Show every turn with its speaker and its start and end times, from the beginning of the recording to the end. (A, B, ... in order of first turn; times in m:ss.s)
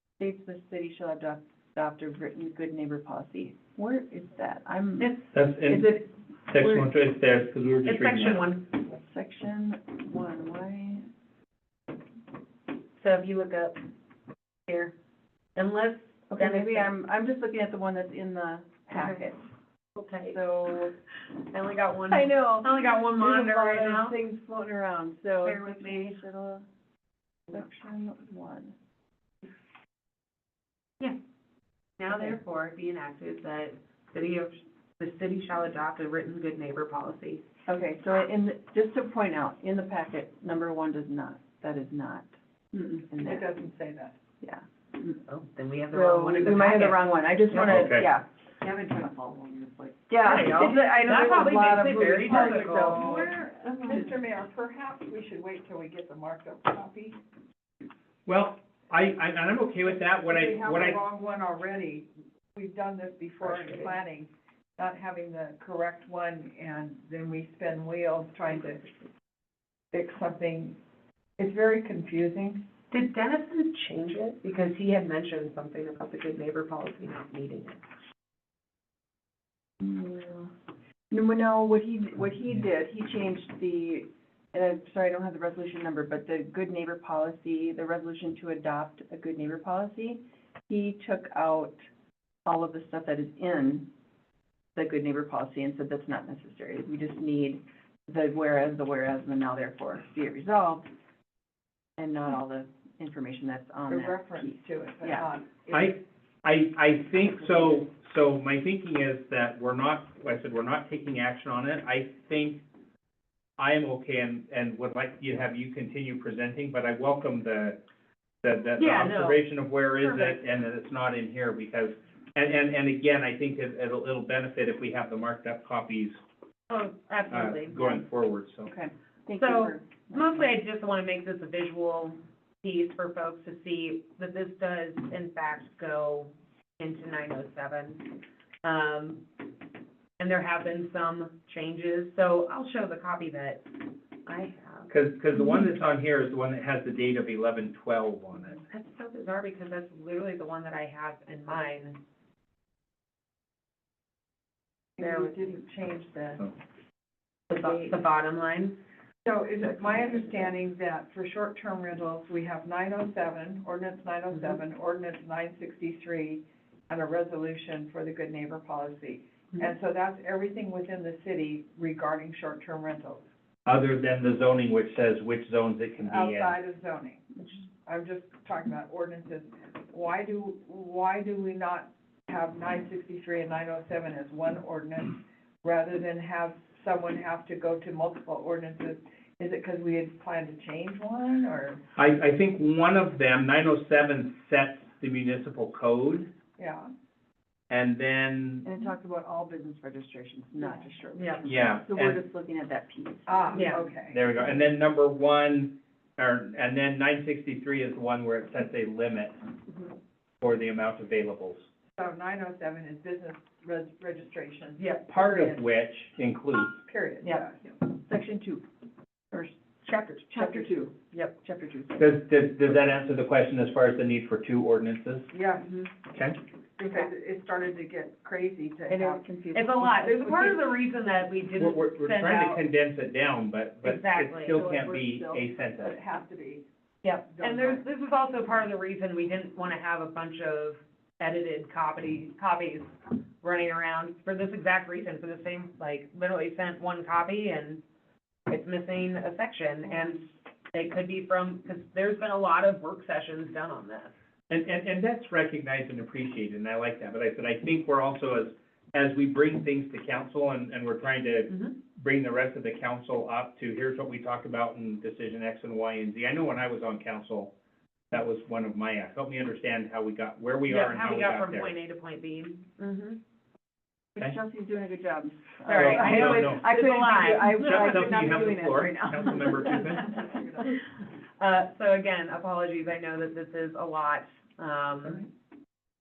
0:00.2-0:06.9 A
0:05.3-0:06.0 B
0:06.5-0:08.4 B
0:07.8-0:08.9 C
0:08.9-0:11.1 A
0:13.0-0:13.8 C
0:14.7-0:14.9 C
0:15.6-0:16.9 C
0:16.3-0:19.4 A
0:18.9-0:19.3 C
0:20.0-0:20.4 C
0:20.3-0:20.9 A
0:21.5-0:24.2 C
0:22.1-0:26.7 A
0:25.4-0:26.2 C
0:27.5-0:28.8 A
0:32.0-0:37.5 C
0:37.7-0:43.5 A
0:43.2-0:44.2 D
0:44.4-0:45.2 A
0:45.3-0:47.9 C
0:45.9-0:53.4 A
0:47.5-0:48.1 B
0:50.2-0:53.2 C
0:52.1-0:57.2 D
0:58.3-1:01.0 B
1:00.2-1:08.9 D
1:03.5-1:03.8 C
1:09.9-1:10.8 D
1:11.4-1:12.6 D
1:12.9-1:17.8 C
1:19.8-1:20.5 A
1:21.1-1:31.8 A
1:32.4-1:33.9 A
1:34.8-1:40.9 A
1:42.0-1:45.3 A
1:43.9-1:46.0 D
1:45.7-1:52.6 B
1:53.6-1:57.8 B
1:58.4-2:06.2 B
1:58.8-1:59.5 C
2:00.0-2:00.4 C
2:06.7-2:08.0 C
2:07.3-2:08.7 B
2:08.7-2:10.5 A
2:09.4-2:19.5 C
2:20.2-2:24.9 C
2:24.9-2:28.6 B
2:28.7-2:32.0 C
2:35.0-2:36.5 D
2:35.0-2:35.3 A
2:37.5-2:38.8 C
2:39.2-2:53.2 D
2:53.7-2:56.5 B
2:56.0-3:11.8 D
3:12.0-3:16.3 B
3:16.6-3:16.9 D
3:17.7-3:18.7 B
3:18.6-3:23.7 A
3:20.6-3:21.4 D
3:21.2-3:21.4 C
3:21.4-3:22.2 B
3:23.3-3:24.2 D
3:23.5-3:23.8 C
3:24.1-3:29.4 B
3:30.4-3:31.6 B
3:32.0-3:35.6 D
3:35.1-3:36.8 B
3:36.8-3:37.6 D
3:38.1-3:38.7 A
3:39.3-3:42.2 A
3:40.4-3:40.7 D
3:42.0-3:45.3 B
3:45.3-3:45.8 D
3:46.1-3:46.4 B
3:46.8-3:49.3 D
3:48.9-3:50.4 A
3:49.5-3:52.6 C
3:50.2-3:50.6 D
3:51.6-3:56.0 B
3:53.8-3:54.6 C
3:54.5-3:55.5 A
3:55.8-3:56.7 D
3:57.0-4:07.8 C
3:57.3-3:57.8 D
4:08.5-4:14.1 C
4:14.5-4:27.5 B
4:21.5-4:21.8 C
4:28.1-4:31.7 B
4:30.7-4:33.2 C
4:34.2-4:40.0 A
4:35.6-4:38.1 C
4:35.7-4:36.7 B
4:37.5-4:40.2 B
4:40.1-4:40.7 D
4:41.4-4:45.2 C